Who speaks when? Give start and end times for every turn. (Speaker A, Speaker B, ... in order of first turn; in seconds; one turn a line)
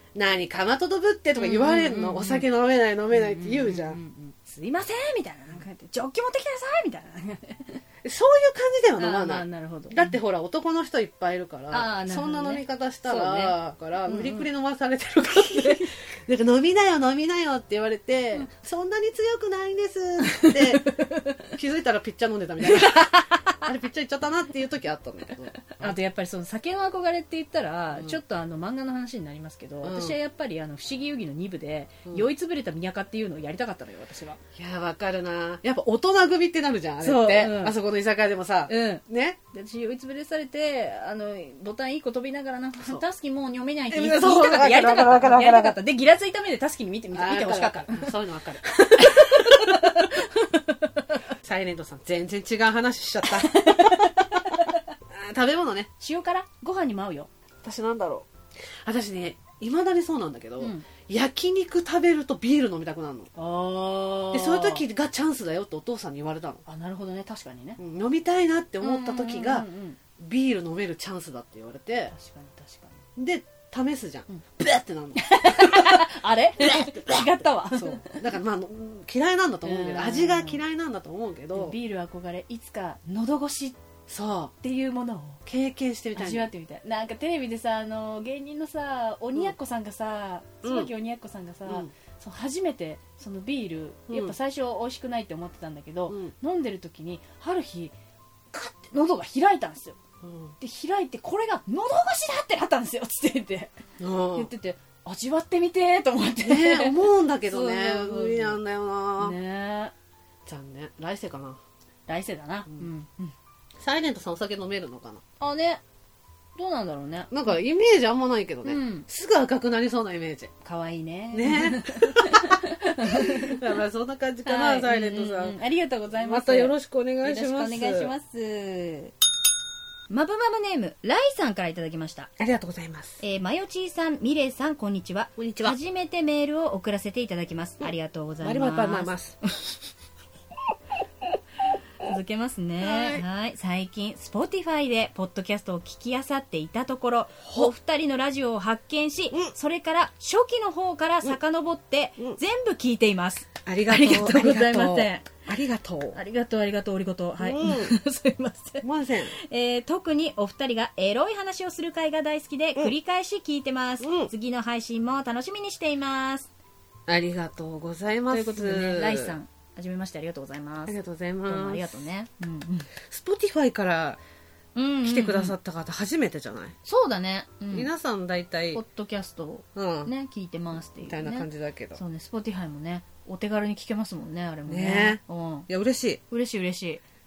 Speaker A: 0.1-4.0
Speaker B: 1.3-2.5
Speaker B: 3.1-7.8
Speaker A: 8.0-20.9
Speaker B: 9.0-10.2
Speaker B: 11.7-14.5
Speaker B: 15.3-15.9
Speaker B: 20.2-21.5
Speaker A: 21.5-25.9
Speaker B: 22.6-23.6
Speaker B: 25.6-34.4
Speaker A: 29.8-30.2
Speaker A: 34.6-39.4
Speaker B: 37.0-37.7
Speaker B: 38.7-51.2
Speaker A: 42.8-43.0
Speaker A: 43.9-45.8
Speaker A: 47.1-50.0
Speaker A: 51.4-54.4
Speaker B: 53.2-54.9
Speaker A: 55.1-55.9
Speaker B: 56.0-57.3
Speaker A: 57.6-58.3
Speaker A: 58.8-63.3
Speaker B: 60.6-60.9
Speaker B: 63.3-64.8
Speaker A: 64.3-66.6
Speaker B: 66.7-67.8
Speaker A: 67.8-69.7
Speaker B: 68.8-70.0
Speaker A: 70.2-72.1
Speaker B: 72.1-73.0
Speaker A: 73.2-76.1
Speaker B: 75.2-78.2
Speaker A: 76.6-81.8
Speaker B: 79.6-80.6
Speaker B: 81.5-83.8
Speaker A: 84.1-84.5
Speaker B: 84.6-85.4
Speaker A: 85.4-86.5
Speaker B: 86.2-97.9
Speaker A: 90.6-90.9
Speaker A: 94.1-94.3
Speaker B: 98.5-100.0
Speaker A: 100.2-100.5
Speaker B: 100.6-103.7
Speaker A: 104.0-104.5
Speaker B: 104.3-108.6
Speaker A: 106.4-109.3
Speaker B: 109.2-109.9
Speaker A: 110.5-111.6
Speaker B: 112.1-113.3
Speaker A: 113.8-115.2
Speaker B: 115.4-115.8
Speaker B: 116.5-117.3
Speaker A: 117.3-120.5
Speaker B: 118.6-119.1
Speaker B: 120.6-123.6
Speaker A: 121.3-125.6
Speaker B: 124.5-129.1
Speaker A: 126.2-128.1
Speaker B: 130.1-132.3
Speaker A: 132.4-133.2
Speaker B: 133.2-139.1
Speaker A: 135.4-135.8
Speaker A: 138.4-139.4
Speaker B: 142.0-155.3
Speaker A: 142.8-143.2
Speaker A: 153.7-156.2
Speaker B: 156.1-166.5
Speaker A: 157.4-158.0
Speaker A: 158.8-159.3
Speaker A: 164.0-164.3
Speaker A: 167.1-169.3
Speaker B: 168.3-170.9
Speaker A: 170.8-172.0
Speaker B: 171.5-172.9
Speaker A: 173.1-174.2
Speaker B: 174.7-175.5
Speaker A: 175.0-176.7
Speaker B: 176.8-177.9
Speaker A: 177.7-178.8
Speaker B: 178.7-185.7
Speaker A: 179.7-180.1
Speaker A: 181.0-182.0
Speaker A: 184.7-186.2
Speaker B: 186.3-187.0